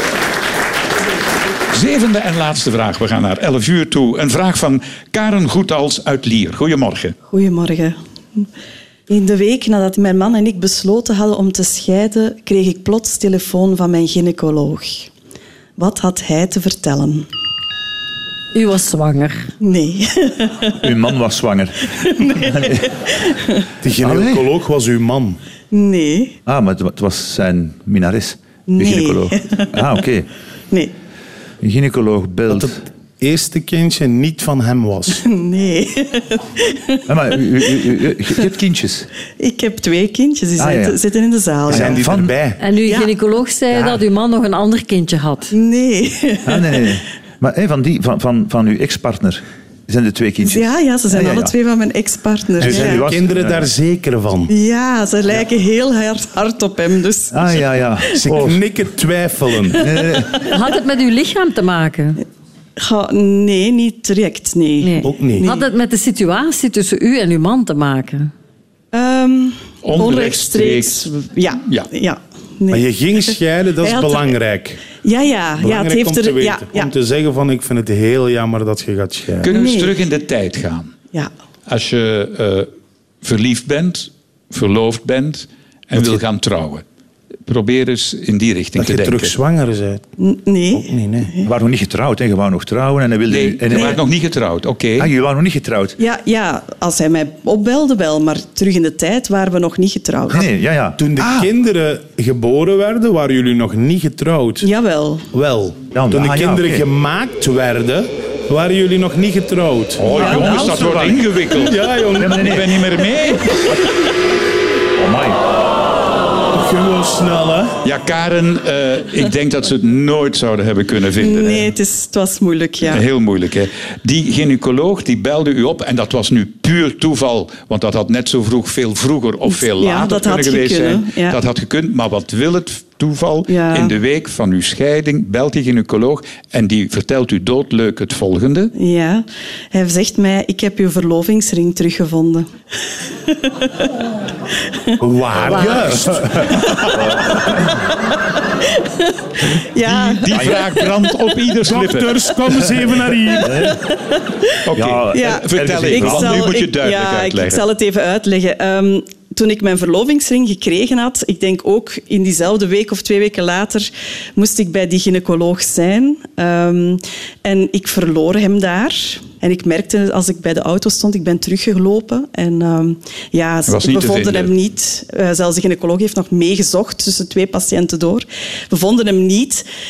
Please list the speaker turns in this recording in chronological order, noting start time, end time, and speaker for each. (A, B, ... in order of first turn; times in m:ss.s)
0:01.7-0:07.2 A
0:07.3-0:08.4 B
0:09.1-0:15.1 B
0:15.8-0:17.3 B
0:18.5-0:19.5 C
0:19.6-0:20.9 B
0:20.8-0:22.9 D
0:22.0-0:23.6 B
0:23.8-0:25.4 E
0:24.0-0:24.5 D
0:25.7-0:26.4 B
0:26.4-0:30.3 D
0:28.7-0:29.7 B
0:31.6-0:32.8 D
0:32.5-0:35.2 E
0:35.2-0:37.9 B
0:37.1-0:39.1 D
0:39.4-0:42.1 B
0:40.6-0:41.0 D
0:41.7-0:42.3 D
0:41.7-0:42.6 E
0:42.6-0:45.5 C
0:42.8-0:43.1 B
0:45.5-0:46.9 B
0:46.4-0:51.5 D
0:50.4-0:53.0 B
0:52.6-0:54.5 E
0:52.6-0:53.7 D
0:54.5-0:58.2 B
0:57.3-0:58.6 D
0:58.2-0:59.9 E
0:59.6-1:00.5 B
0:59.7-1:00.4 D
1:00.5-1:02.2 C
1:02.8-1:05.6 B
1:04.8-1:08.3 C
1:05.0-1:05.4 E
1:08.9-1:14.4 B
1:09.8-1:11.9 A
1:12.7-1:14.8 E
1:15.0-1:16.9 B
1:15.6-1:19.5 E
1:19.4-1:20.9 A
1:19.5-1:20.0 B
1:21.7-1:22.7 A
1:23.2-1:26.8 A
1:27.5-1:29.3 A
1:28.8-1:30.0 E
1:30.2-1:31.5 B
1:30.7-1:31.3 E
1:31.4-1:34.0 D
1:33.3-1:35.1 A
1:35.0-1:36.0 D
1:36.0-1:40.5 B
1:40.3-1:41.5 D
1:41.0-1:44.7 E
1:44.6-1:45.3 B
1:45.3-1:52.6 E
1:45.9-1:46.9 D
1:50.0-1:53.8 A
1:50.2-1:51.2 D
1:52.2-1:52.9 D
1:55.0-1:55.4 D
1:56.5-1:57.7 E
1:57.8-2:01.7 A
2:01.2-2:03.0 B
2:02.9-2:18.7 A
2:09.5-2:11.4 B
2:13.5-2:13.9 B
2:18.7-2:22.5 B
2:23.2-2:23.9 B
2:25.0-2:27.1 E
2:25.4-2:27.8 D
2:25.5-2:25.9 B
2:26.5-2:27.6 B
2:28.3-2:30.9 B
2:29.8-2:32.3 A
2:30.3-2:30.8 D
2:31.6-2:33.8 E
2:33.4-2:34.6 B
2:33.4-2:33.8 D
2:34.6-2:37.6 A
2:34.7-2:36.5 D
2:35.1-2:59.6 B
2:53.7-2:54.5 A